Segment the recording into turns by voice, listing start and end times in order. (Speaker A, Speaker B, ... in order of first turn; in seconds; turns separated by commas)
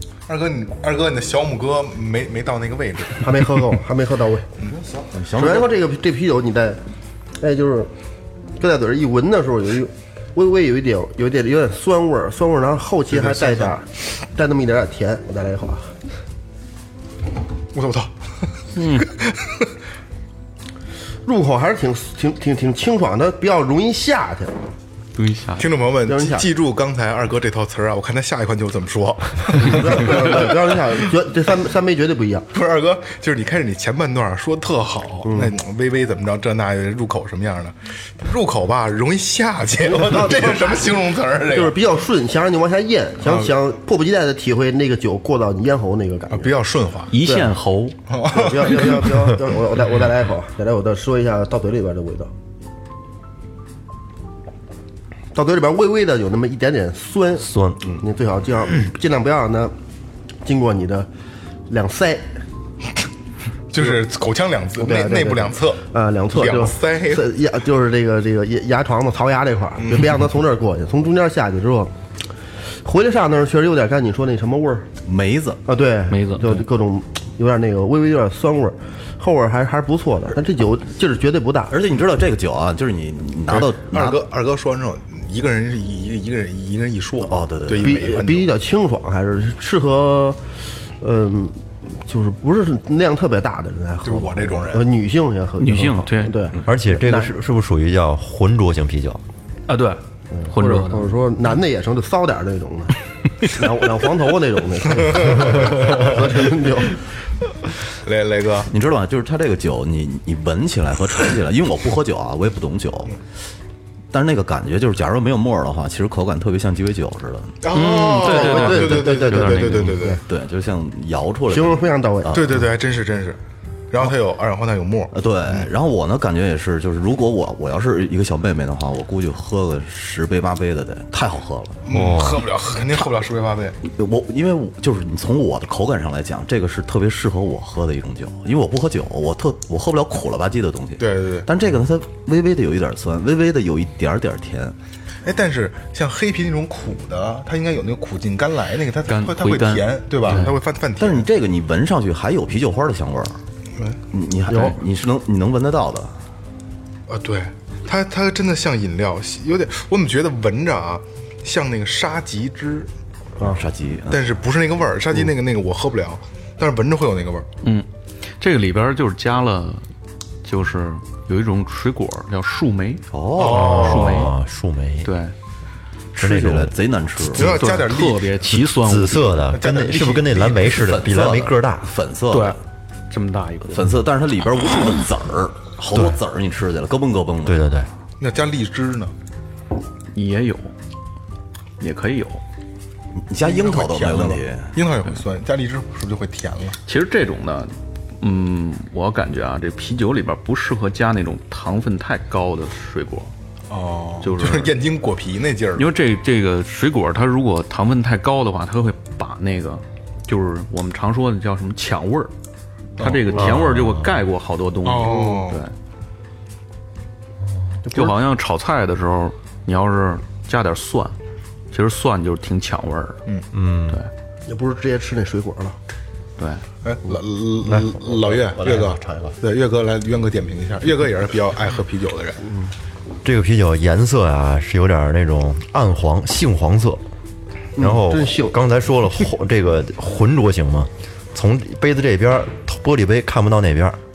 Speaker A: 0.3-3.5, Speaker B: 3.2-4.5, Speaker A: 4.6-5.0, Speaker C: 5.1-5.7, Speaker B: 5.3-6.8, Speaker B: 7.4-7.9, Speaker B: 8.6-15.9, Speaker A: 13.1-13.7, Speaker A: 17.7-18.1, Speaker D: 18.7-19.1, Speaker A: 19.0-19.6, Speaker B: 21.2-24.6, Speaker D: 25.1-25.7, Speaker A: 25.6-31.1, Speaker B: 26.0-26.5, Speaker B: 29.5-32.5, Speaker A: 32.5-41.8, Speaker B: 35.2-35.5, Speaker B: 39.9-46.5, Speaker A: 43.2-43.5, Speaker A: 46.3-47.1, Speaker D: 47.1-48.0, Speaker B: 47.2-47.5, Speaker A: 48.1-49.3, Speaker B: 48.3-52.3, Speaker B: 55.3-59.7, Speaker E: 57.4-57.8, Speaker B: 60.4-61.1, Speaker B: 61.7-62.4, Speaker A: 63.7-67.3, Speaker B: 64.8-71.9, Speaker A: 69.8-70.2, Speaker B: 72.8-74.9, Speaker C: 75.0-75.6, Speaker B: 75.7-81.8, Speaker D: 76.1-76.6, Speaker C: 81.7-84.2, Speaker A: 83.5-88.5, Speaker C: 87.2-88.0, Speaker B: 87.8-90.4, Speaker B: 91.0-97.3, Speaker A: 94.0-94.9, Speaker D: 95.6-96.4, Speaker E: 96.6-99.2, Speaker D: 99.7-101.1, Speaker B: 100.3-107.0, Speaker A: 104.9-106.2, Speaker A: 108.0-108.7, Speaker C: 108.7-113.2, Speaker C: 114.1-117.6, Speaker A: 117.6-120.2, Speaker D: 117.7-120.0, Speaker B: 117.8-120.2, Speaker C: 120.3-122.5, Speaker B: 121.5-122.4, Speaker A: 122.3-123.4, Speaker A: 123.9-125.7, Speaker C: 125.1-131.8, Speaker A: 131.9-133.8, Speaker E: 131.9-132.4, Speaker C: 133.8-144.8, Speaker A: 141.0-141.5, Speaker A: 145.2-151.3, Speaker D: 149.1-150.5, Speaker C: 151.0-153.4, Speaker C: 154.1-156.2, Speaker B: 154.5-154.8, Speaker A: 157.1-162.9, Speaker C: 163.4-164.2, Speaker A: 164.1-167.5, Speaker D: 168.4-169.8, Speaker D: 170.4-173.0, Speaker C: 173.1-173.9, Speaker A: 173.4-174.3, Speaker E: 173.4-175.1, Speaker D: 173.6-174.3, Speaker D: 175.0-175.3, Speaker C: 176.1-177.8, Speaker E: 176.2-176.7, Speaker A: 177.3-178.2, Speaker D: 177.4-179.4, Speaker E: 178.4-181.9, Speaker A: 179.5-180.8, Speaker C: 180.7-182.6, Speaker D: 182.3-182.6, Speaker D: 183.1-184.0, Speaker C: 183.7-187.6, Speaker E: 185.9-186.2, Speaker E: 187.4-187.9, Speaker A: 188.2-189.1, Speaker D: 190.1-190.7, Speaker D: 191.8-192.4, Speaker C: 193.1-194.7, Speaker A: 193.4-196.8, Speaker D: 196.9-203.3, Speaker A: 203.7-205.9, Speaker D: 204.2-204.7, Speaker D: 205.8-212.3, Speaker A: 213.0-213.3, Speaker D: 213.0-215.8, Speaker E: 213.4-214.1, Speaker A: 214.8-215.6, Speaker B: 215.0-215.4, Speaker B: 217.9-218.2, Speaker D: 217.9-221.2, Speaker D: 221.7-223.2, Speaker E: 223.5-224.0, Speaker B: 224.5-225.8, Speaker D: 226.4-226.6, Speaker A: 226.8-232.4, Speaker E: 227.7-229.4, Speaker E: 233.2-237.0, Speaker B: 237.8-238.6, Speaker E: 237.8-244.0